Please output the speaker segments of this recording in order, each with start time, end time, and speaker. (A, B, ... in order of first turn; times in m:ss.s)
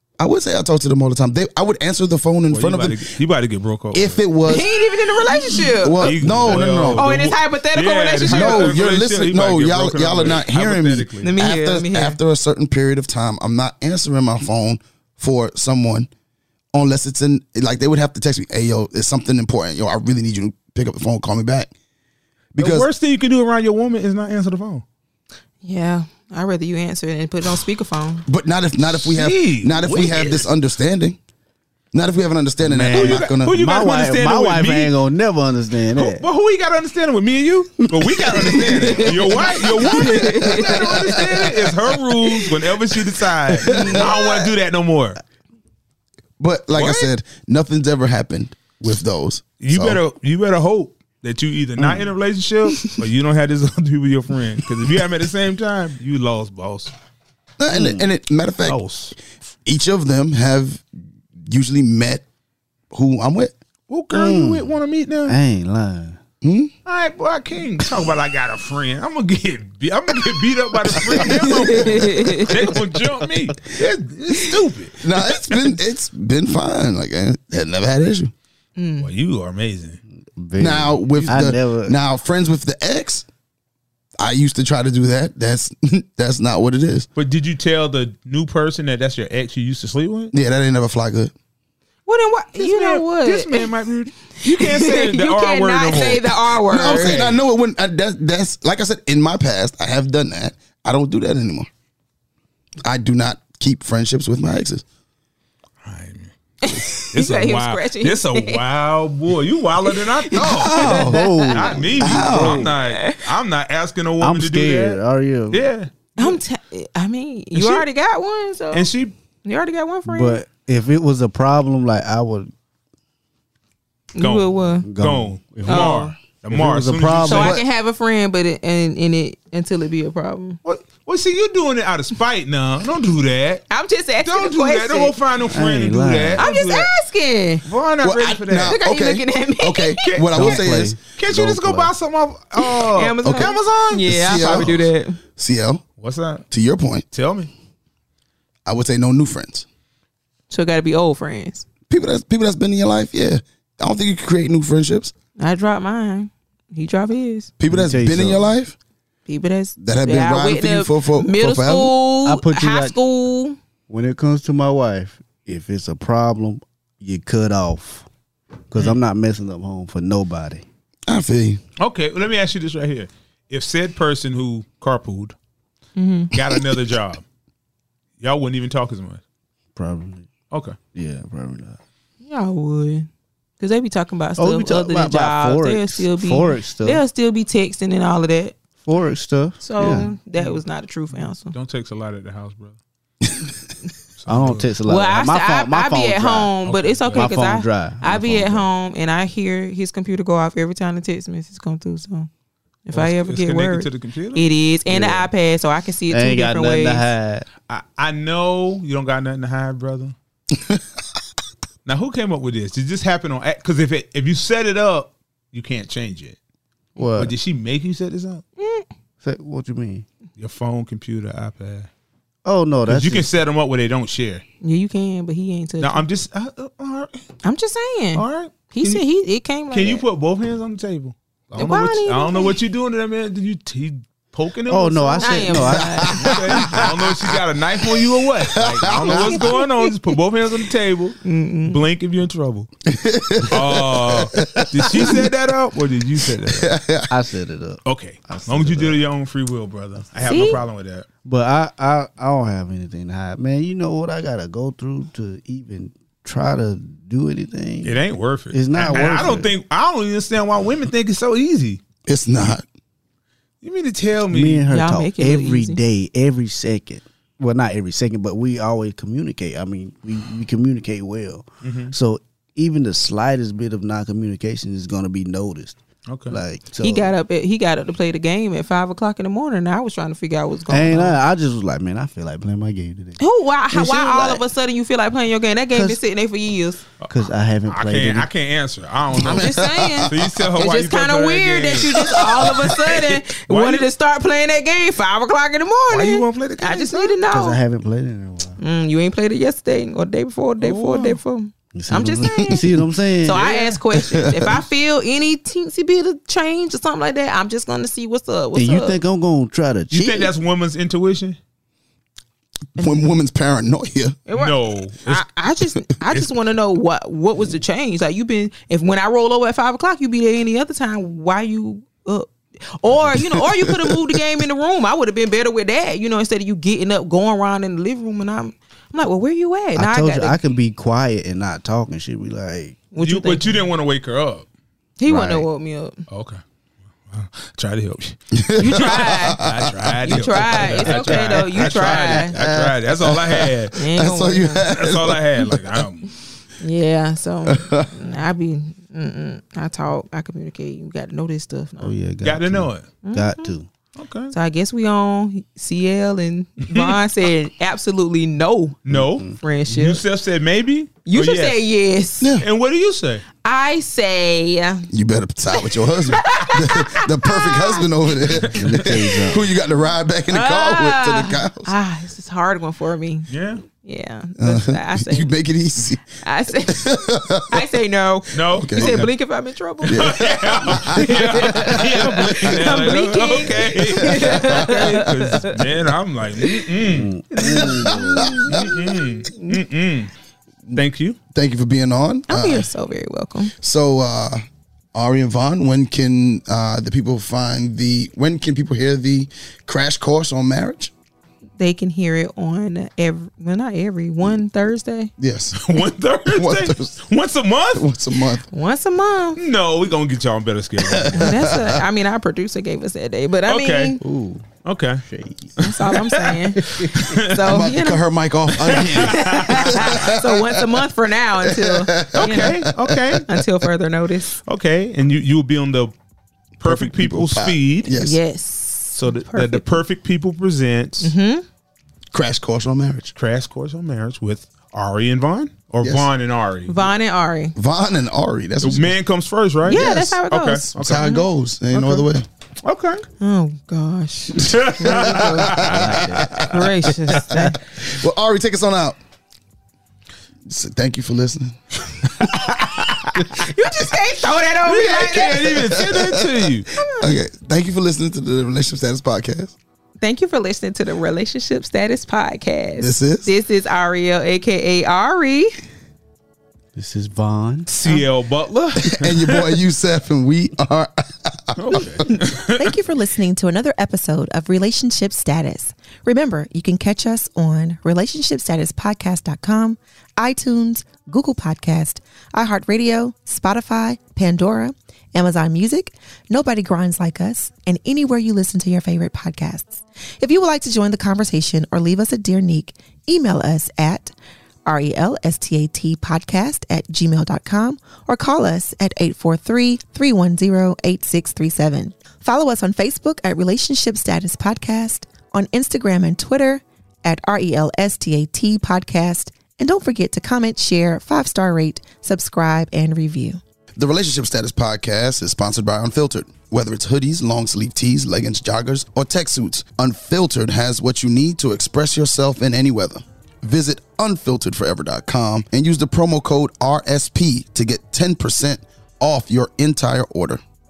0:00.2-0:03.0 A
0:02.5-0:04.2 B
0:03.9-0:04.7 A
0:04.4-0:08.8 C
0:05.8-0:07.1 A
0:06.0-0:11.3 B
0:08.3-0:16.1 A
0:11.2-0:12.2 C
0:16.7-0:21.7 A
0:22.5-0:22.9 A
0:22.6-0:24.8 B
0:25.6-0:28.2 C
0:28.2-0:31.2 A
0:28.9-0:30.5 B
0:31.9-0:33.6 A
0:32.6-0:36.2 D
0:32.9-0:34.9 B
0:35.9-0:45.2 B
0:37.9-0:38.9 D
0:38.7-0:40.9 C
0:40.2-0:41.5 D
0:40.5-0:40.8 A
0:43.7-0:44.2 A
0:43.7-0:44.0 C
0:46.4-0:50.0 A
0:46.7-0:47.1 B
0:49.6-0:56.9 B
0:57.6-0:58.8 A
0:57.7-0:58.1 D
0:58.6-0:59.2 B
0:59.6-1:00.9 A
1:01.5-1:02.2 A
1:02.9-1:03.5 A
1:03.9-1:05.3 B
1:04.1-1:04.7 D
1:05.2-1:06.2 D
1:06.4-1:06.7 A
1:06.8-1:15.8 B
1:11.3-1:12.5 C
1:15.0-1:18.3 A
1:18.8-1:19.1 C
1:19.0-1:20.0 B
1:20.4-1:22.0 D
1:20.6-1:23.2 A
1:24.2-1:27.1 A
1:27.2-1:30.3 B
1:30.3-1:31.3 A
1:32.0-1:33.7 C
1:32.6-1:37.4 B
1:34.4-1:37.2 C
1:36.7-1:41.7 A
1:42.8-1:44.8 A
1:45.8-1:55.0 B
1:46.6-1:48.6 C
1:49.9-1:51.7 C
1:50.3-1:51.3 A
1:50.7-1:52.7 D
1:52.0-1:52.7 A
1:52.6-1:53.2 C
1:54.2-1:55.7 D
1:55.5-1:56.4 B
1:56.2-1:58.9 C
1:57.5-1:57.8 B
1:58.7-1:59.1 B
1:59.4-2:00.4 C
2:00.0-2:02.5 D
2:04.2-2:04.9 C
2:04.2-2:07.6 B
2:04.8-2:07.6 D
2:05.6-2:06.1 C
2:07.2-2:10.6 C
2:10.6-2:13.6 B
2:13.7-2:15.2 C
2:14.2-2:16.9 B
2:15.5-2:16.4 D
2:16.4-2:17.6 C
2:17.6-2:18.8 B
2:18.0-2:21.0 A
2:18.6-2:20.1 C
2:20.0-2:24.8 B
2:20.3-2:21.9 D
2:22.6-2:25.2 C
2:24.0-2:25.8 A
2:26.0-2:26.4 B
2:26.5-2:27.0 A
2:27.1-2:27.5 B
2:28.6-2:29.6 A
2:30.5-2:31.6 C
2:31.9-2:35.1 A
2:35.4-2:37.5 C
2:37.6-2:38.8 A
2:37.7-2:38.5 D
2:39.2-2:43.6 C
2:39.8-2:41.9 A
2:42.2-2:43.0 D
2:43.9-2:48.1 D
2:48.7-2:50.6 D
2:51.1-2:51.6 A
2:51.8-2:55.4 B
2:56.0-2:56.3 C
2:56.3-2:57.2 B
2:58.2-2:59.2 B
2:59.7-3:00.3 D
3:00.5-3:00.8 B
3:00.9-3:01.8 D
3:02.2-3:08.5 C
3:04.4-3:07.0 D
3:08.8-3:10.1 D
3:09.6-3:11.5 C
3:11.4-3:12.8 B
3:14.2-3:14.7 B
3:14.3-3:18.7 D
3:14.8-3:22.3 C
3:16.7-3:17.3 B
3:22.9-3:27.1 C
3:22.9-3:24.4 B
3:24.9-3:25.3 D
3:26.1-3:27.5 D
3:27.7-3:30.1 B
3:31.8-3:36.4 B
3:37.0-3:37.3 D
3:37.2-3:38.4 B
3:38.6-3:38.8 C
3:39.2-3:40.0 D
3:40.4-3:41.9 B
3:42.4-3:43.3 D
3:42.9-3:44.4 B
3:44.6-3:46.0 C
3:45.8-3:47.2 B
3:47.4-3:50.0 C
3:48.2-3:49.0 B
3:49.7-4:02.7 B
3:51.5-3:52.5 C
3:54.7-3:56.7 D
3:55.2-3:56.4 C
3:56.6-3:56.9 A
3:58.5-3:59.5 A
3:58.9-3:59.9 C
4:01.2-4:01.8 C
4:02.9-4:05.2 A
4:03.5-4:06.7 B
4:06.4-4:07.1 A
4:07.1-4:09.0 D
4:07.8-4:11.0 B
4:10.2-4:10.6 C
4:11.2-4:18.0 D
4:17.8-4:21.8 B
4:18.5-4:19.5 D
4:22.1-4:22.6 A
4:23.6-4:24.7 B
4:24.3-4:37.1 D
4:24.7-4:25.8 C
4:31.6-4:31.9 B
4:36.1-4:36.4 B
4:36.8-4:41.2 C
4:40.7-4:43.2 D
4:43.2-4:46.8 C
4:43.7-4:44.4 D
4:45.7-4:46.0 D
4:47.1-4:48.3 D
4:47.7-4:53.9 B
4:49.2-4:57.6 C
4:49.2-4:50.1 A
4:55.9-4:57.2 B
4:57.3-4:58.6 D
4:58.6-5:02.6 C
5:00.6-5:01.2 B
5:01.7-5:03.5 D
5:03.2-5:09.0 C
5:03.3-5:03.8 B
5:04.1-5:04.5 A
5:08.5-5:10.3 D
5:09.9-5:11.4 B
5:12.8-5:14.2 A
5:14.3-5:30.4 C
5:14.3-5:15.3 B
5:23.2-5:24.1 A
5:29.8-5:32.8 D
5:32.9-5:33.6 C
5:33.0-5:34.5 B
5:35.0-5:36.0 C
5:35.1-5:35.5 D
5:36.1-5:36.4 B
5:37.1-5:43.8 B
5:38.3-5:39.8 A
5:38.6-5:39.4 C
5:40.0-5:42.3 C
5:40.8-5:41.4 A
5:42.3-5:45.6 A
5:43.7-5:44.7 C
5:44.7-5:46.1 B
5:46.6-5:51.9 C
5:47.4-5:47.9 A
5:51.8-5:53.7 D
5:52.2-5:52.9 B
5:53.0-5:53.5 C
5:54.0-5:54.3 B
5:54.3-6:00.0 C
5:58.9-6:01.6 B
5:58.9-5:59.4 D
6:01.0-6:02.3 C
6:02.2-6:02.5 A
6:02.4-6:03.2 B
6:03.4-6:04.9 C
6:04.9-6:11.7 A
6:05.5-6:07.9 C
6:08.4-6:09.0 B
6:08.5-6:09.5 D
6:10.3-6:13.3 C
6:13.3-6:13.6 B
6:13.8-6:15.3 C
6:14.4-6:16.1 A
6:16.2-6:25.6 C
6:16.7-6:17.7 A
6:18.3-6:19.1 B
6:18.6-6:19.1 A
6:19.8-6:22.5 A
6:19.9-6:27.1 B
6:24.1-6:24.8 A
6:26.8-6:28.3 D
6:27.3-6:29.6 C
6:28.2-6:28.6 A
6:28.5-6:30.1 B
6:30.7-6:31.2 B
6:31.3-6:32.7 A
6:32.3-6:33.5 C
6:33.6-6:34.4 A
6:34.9-6:40.9 A
6:41.6-6:45.1 C
6:45.2-6:45.7 A
6:45.6-6:47.9 B
6:46.3-6:46.9 A
6:47.8-6:48.4 A
6:48.5-6:49.4 C
6:49.4-6:51.4 B
6:50.8-6:51.8 A
6:51.1-6:54.0 C
6:53.5-6:54.0 B
6:54.0-6:54.5 D
6:54.6-6:55.0 B
6:55.0-6:55.6 D
6:55.6-6:58.0 C
6:55.6-6:57.5 B
6:57.3-7:00.8 A
6:58.6-6:59.9 B
6:58.8-7:02.7 C
7:01.4-7:03.2 A
7:02.1-7:03.3 B
7:03.2-7:04.4 C
7:04.4-7:05.9 B
7:06.6-7:07.9 B
7:06.6-7:08.2 A
7:07.9-7:09.8 C
7:09.0-7:11.1 B
7:11.0-7:11.4 C
7:12.1-7:13.1 A
7:13.2-7:16.8 B
7:15.8-7:16.1 A
7:16.6-7:17.5 C
7:17.6-7:18.9 A
7:18.6-7:21.2 B
7:19.6-7:21.2 C
7:19.7-7:20.2 A
7:20.7-7:22.3 A
7:21.7-7:22.1 B
7:22.6-7:23.0 B
7:23.2-7:25.7 C
7:24.4-7:26.3 B
7:25.3-7:26.6 A
7:25.7-7:26.2 D
7:26.3-7:27.6 C
7:27.3-7:29.0 A
7:30.5-7:31.6 A
7:32.2-7:33.2 B
7:33.2-7:35.6 C
7:34.6-7:36.7 B
7:35.6-7:39.5 A
7:36.8-7:37.2 C
7:40.0-7:45.5 C
7:42.8-7:43.3 A
7:46.7-7:47.7 D
7:47.7-7:49.5 B
7:48.9-7:52.2 A
7:51.6-7:52.7 B
7:52.6-8:14.1 E
8:14.6-8:33.4 E
8:33.8-8:50.4 A